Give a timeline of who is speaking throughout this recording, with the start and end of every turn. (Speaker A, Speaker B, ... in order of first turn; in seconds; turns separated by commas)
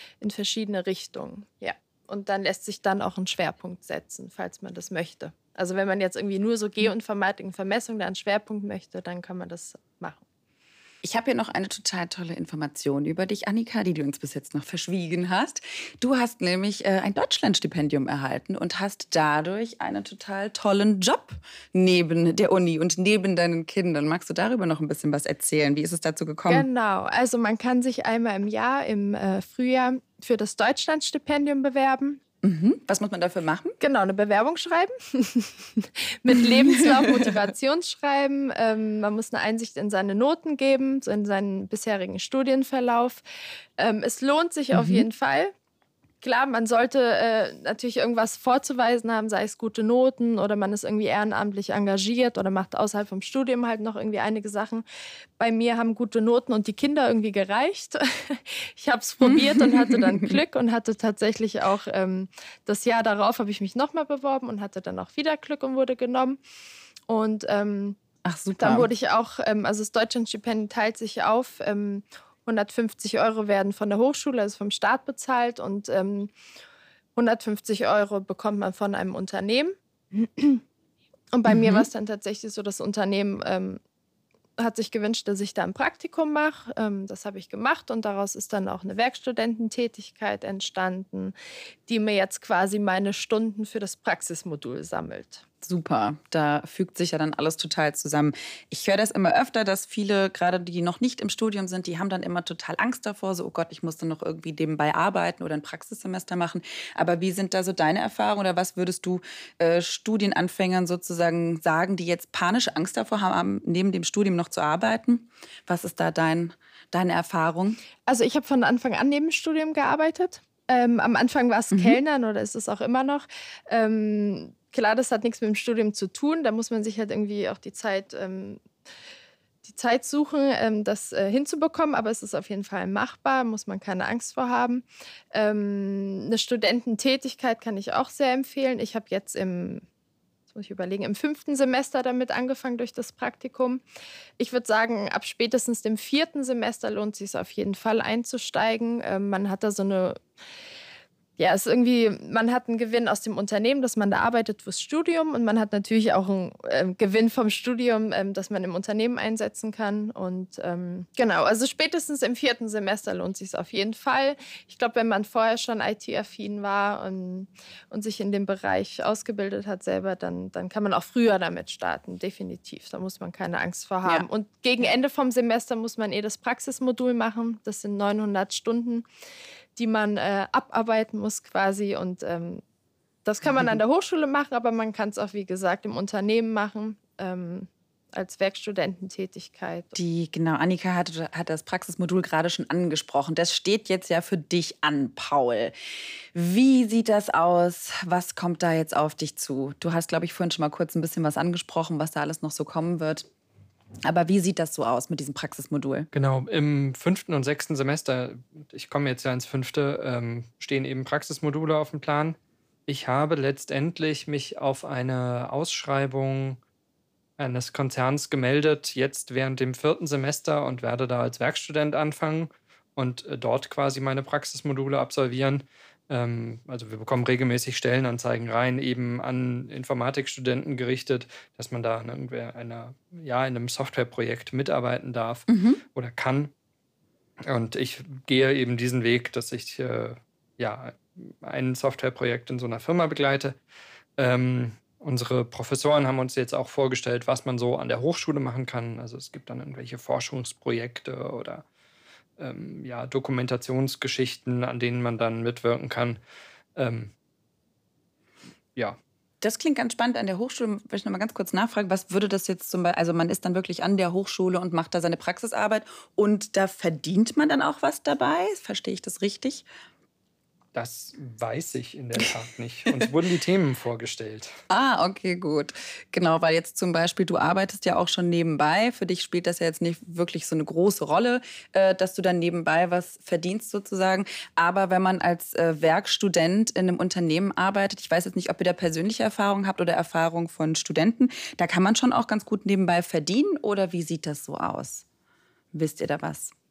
Speaker A: 0.2-10.2, Speaker B: 11.0-26.6, Speaker A: 26.5-32.2, Speaker B: 32.4-33.8, Speaker A: 33.8-43.2, Speaker B: 36.3-37.4, Speaker A: 43.8-45.5, Speaker B: 44.7-45.0, Speaker A: 46.2-54.8, Speaker A: 55.4-66.4, Speaker B: 59.2-60.4, Speaker A: 67.1-68.0, Speaker B: 68.2-68.9, Speaker A: 68.6-76.3, Speaker A: 77.2-80.6, Speaker A: 81.3-83.8, Speaker B: 81.5-81.8, Speaker A: 84.6-91.3, Speaker A: 91.9-95.4, Speaker B: 95.6-117.8, Speaker A: 118.0-128.6, Speaker B: 121.7-122.0, Speaker A: 129.6-139.8, Speaker A: 140.5-143.8, Speaker A: 144.4-150.2, Speaker A: 151.4-179.1, Speaker A: 179.8-182.6, Speaker A: 183.2-189.9, Speaker B: 189.9-195.7, Speaker B: 196.3-203.3, Speaker B: 204.0-206.1, Speaker C: 206.1-216.6, Speaker C: 217.4-236.5, Speaker B: 235.5-235.8, Speaker C: 237.4-243.6, Speaker C: 244.2-251.6, Speaker C: 252.4-256.2, Speaker C: 256.8-257.1, Speaker B: 259.4-269.6, Speaker C: 270.7-274.5, Speaker B: 274.7-295.0, Speaker B: 295.7-296.5